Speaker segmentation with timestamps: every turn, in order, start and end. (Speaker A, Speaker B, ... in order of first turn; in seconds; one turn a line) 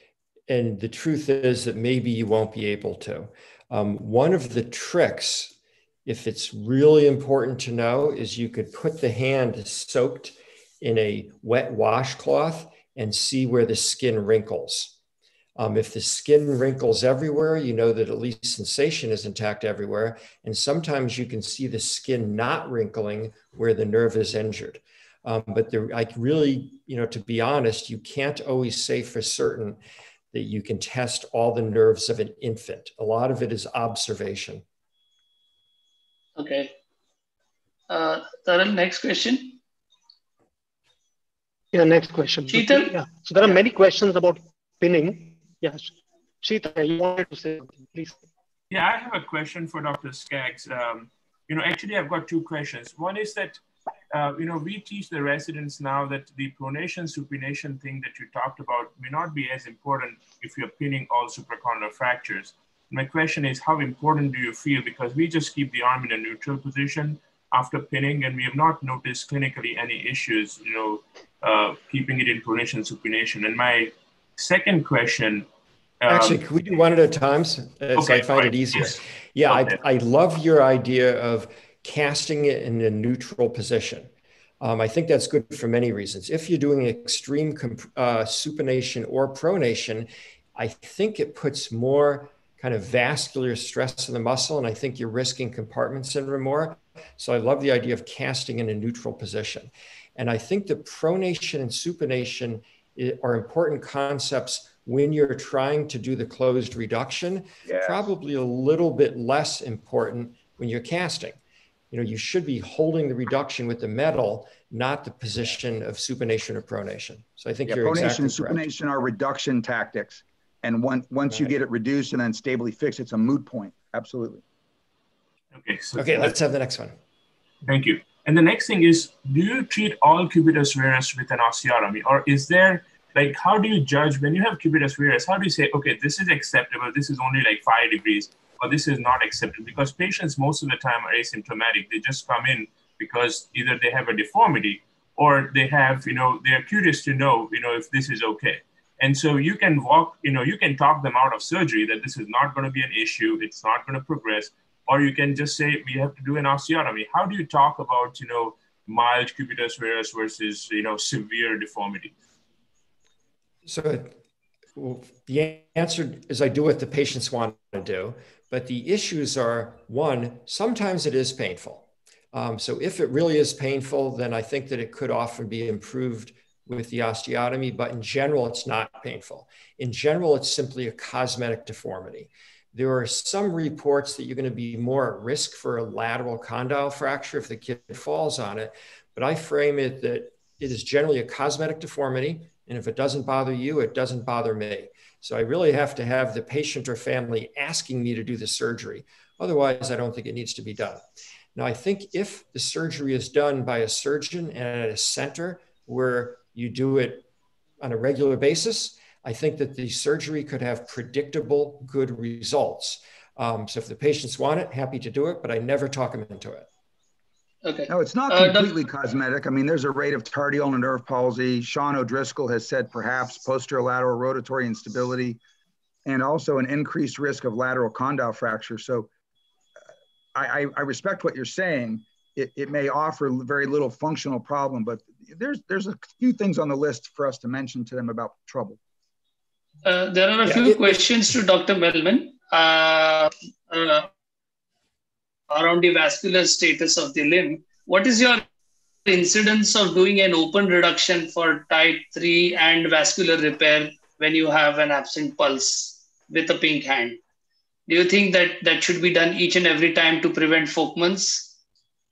Speaker A: 0.5-5.5
Speaker A: 6.1-14.9
Speaker A: 15.6-29.8
Speaker A: 30.3-34.6
Speaker B: 36.4-36.7
Speaker B: 37.9-39.6
Speaker C: 41.7-48.2
Speaker B: 42.5-43.6
Speaker D: 48.7-75.5
Speaker D: 76.0-76.4
Speaker A: 76.1-84.1
Speaker D: 78.0-79.8
Speaker A: 84.6-111.4
Speaker E: 107.7-108.1
Speaker A: 111.9-118.7
Speaker E: 117.7-124.4
Speaker A: 121.3-121.6
Speaker D: 125.5-126.4
Speaker A: 126.0-127.0
Speaker D: 127.7-162.2
Speaker A: 163.7-164.1
Speaker A: 164.8-207.3
Speaker A: 207.8-216.7
Speaker B: 217.6-218.7
Speaker E: 217.9-225.4
Speaker E: 226.1-229.1
Speaker E: 230.3-238.8
Speaker B: 239.8-244.1
Speaker A: 240.4-241.1
Speaker B: 245.5-248.4
Speaker B: 249.1-257.2
Speaker B: 257.9-261.5